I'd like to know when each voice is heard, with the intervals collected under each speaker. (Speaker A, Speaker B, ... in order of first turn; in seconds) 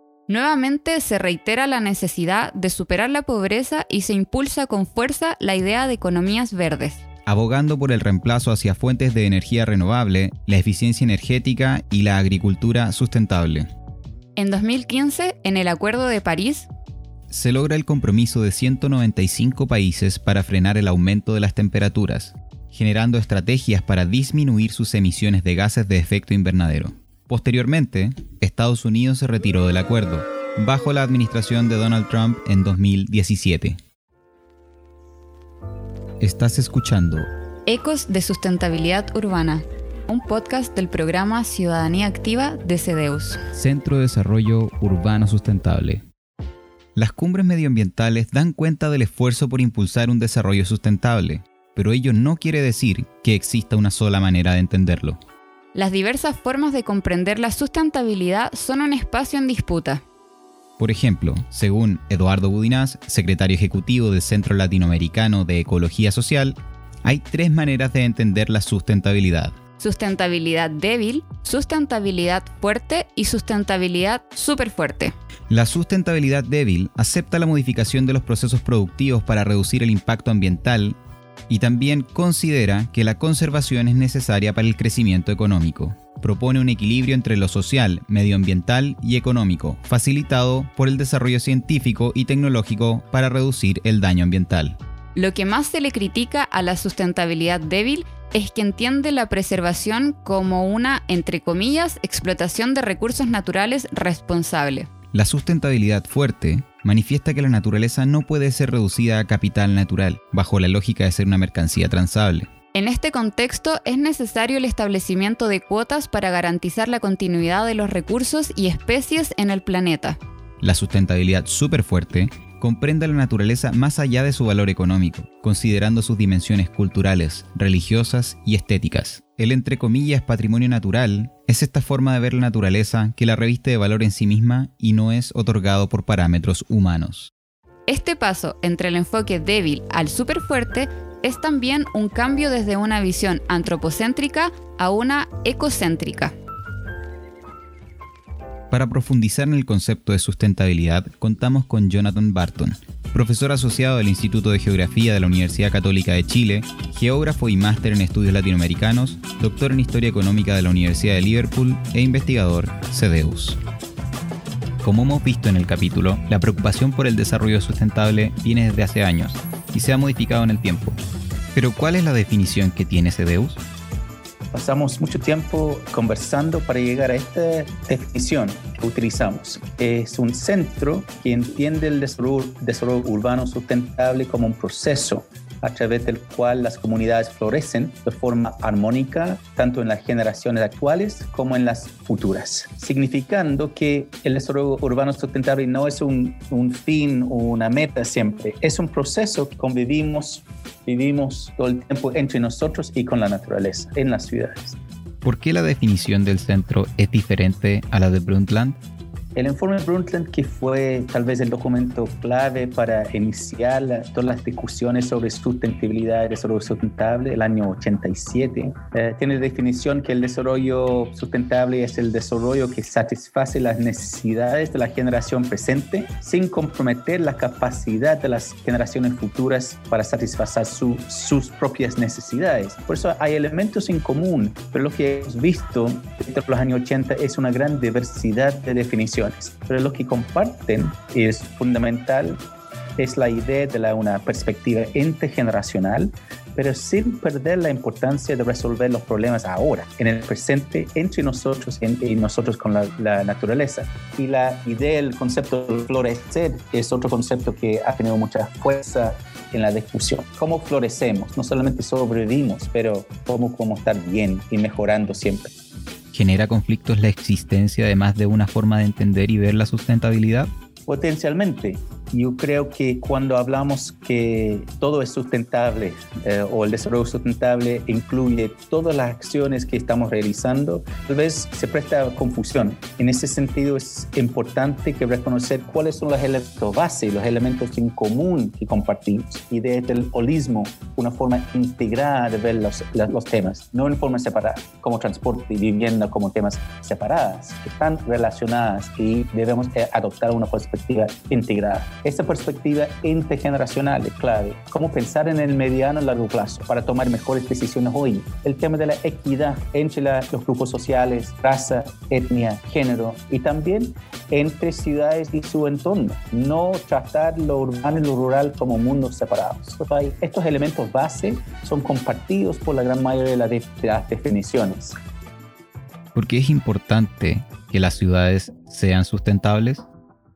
Speaker A: 0.3-7.0, 14.4-16.7, 37.7-43.4, 55.7-60.0, 69.8-75.1, 95.2-104.9, 112.7-120.2, 137.9-146.3
Speaker B: 7.3-13.7, 17.3-33.8, 36.2-37.3, 43.5-46.0, 47.0-55.2, 60.8-69.6, 75.5-81.0, 81.5-94.8, 105.1-112.5, 120.6-137.3, 148.7-163.6, 164.8-171.0, 171.5-173.6, 205.2-208.8, 266.1-270.5, 326.1-329.9
Speaker C: 174.5-204.8, 209.4-242.4, 243.0-265.5, 270.9-325.0